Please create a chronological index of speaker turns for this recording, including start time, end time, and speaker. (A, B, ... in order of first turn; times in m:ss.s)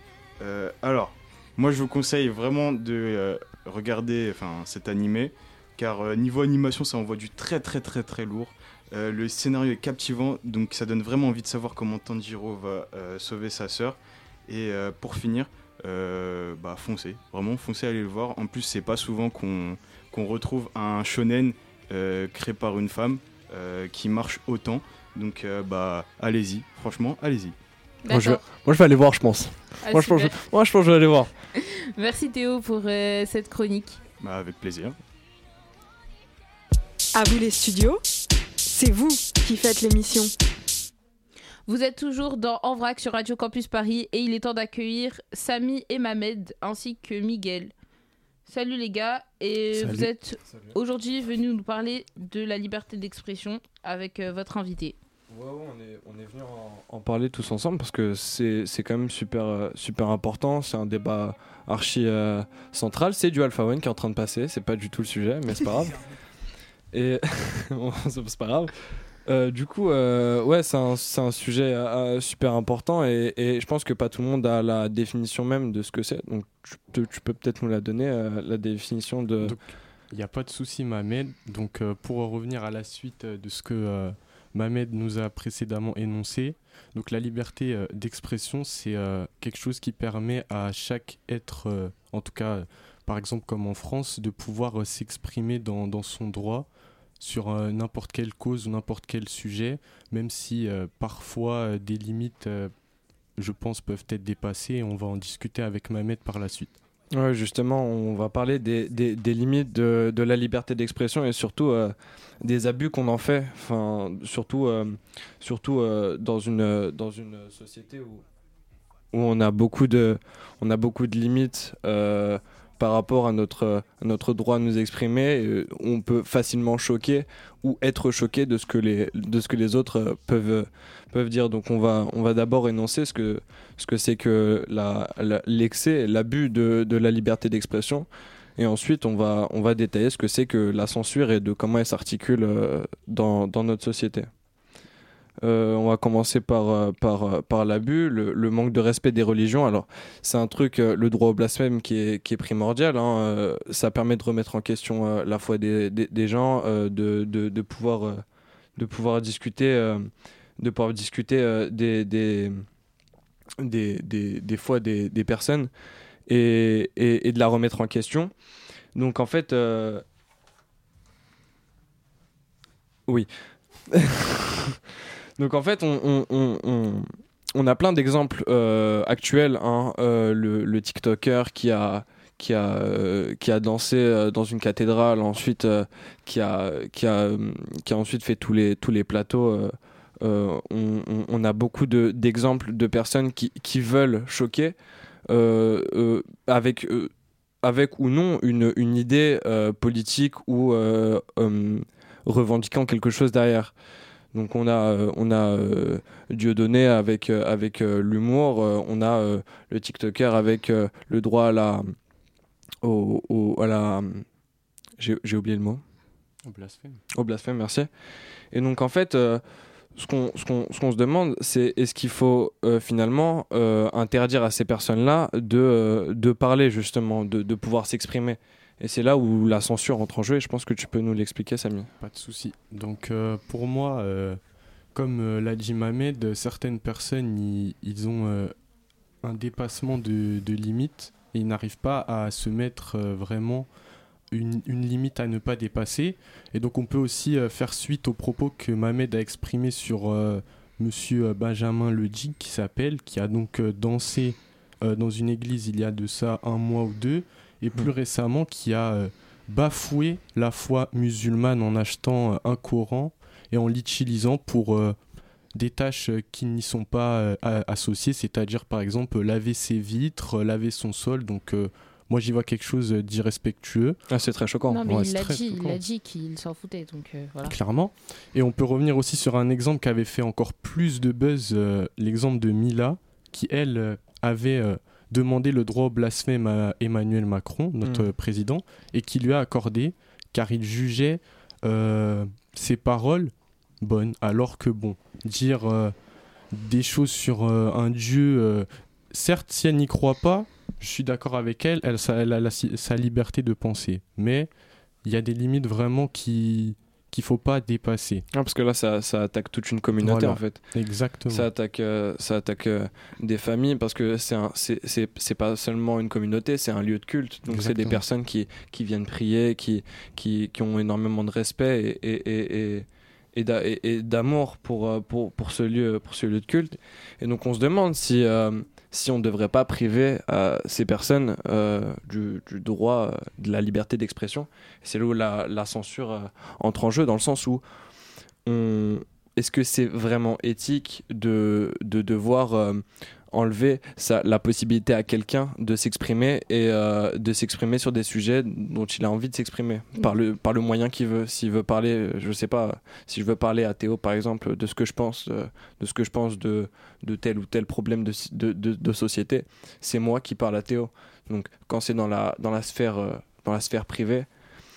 0:00.4-0:27.6 A
0:28.0-0:28.4 B
0:28.1-0:31.3 C
0:29.8-0:30.4 B
0:31.6-0:34.0 B
0:34.2-0:35.0 A
0:37.2-0:38.0 D
0:38.6-0:40.3 D
0:41.7-0:47.7 B
0:48.5-0:55.0 B
0:49.8-0:50.1 E
0:50.5-0:50.8 C
0:55.3-1:06.0 C
1:06.9-1:08.7 C
1:09.2-1:19.6 C
1:19.4-1:36.7 E
1:37.2-1:42.7 E
1:43.4-1:46.8 E
1:47.1-1:58.2 C
1:59.1-2:24.3 C
2:25.4-2:38.2 C
2:38.8-2:42.6 C
2:43.6-2:45.7 C
2:46.3-2:48.3 C
2:49.0-2:50.0 C
2:53.9-2:54.8 C
2:55.4-3:14.8 C
3:15.3-3:17.1 C
3:17.6-3:23.7 C
3:24.3-3:31.9 C
3:32.8-3:34.2 C
3:35.0-3:35.8 C
3:36.5-3:37.0 E
3:37.1-3:37.9 C
3:38.5-3:39.4 C
3:40.0-3:51.9 C
3:52.0-3:54.4 E
3:55.0-3:58.5 E
3:59.2-4:03.7 E
4:04.3-4:25.0 E
4:25.5-4:34.0 E
4:34.1-4:34.8 C
4:34.7-4:37.5 B
4:34.8-4:35.8 E
4:37.4-4:56.0 E
4:47.8-4:48.1 C
4:56.5-5:04.5 E
5:05.0-5:08.2 E
5:08.3-5:10.7 C
5:10.0-5:11.5 E
5:11.3-5:37.6 C
5:17.5-5:18.0 E
5:38.4-6:04.3 C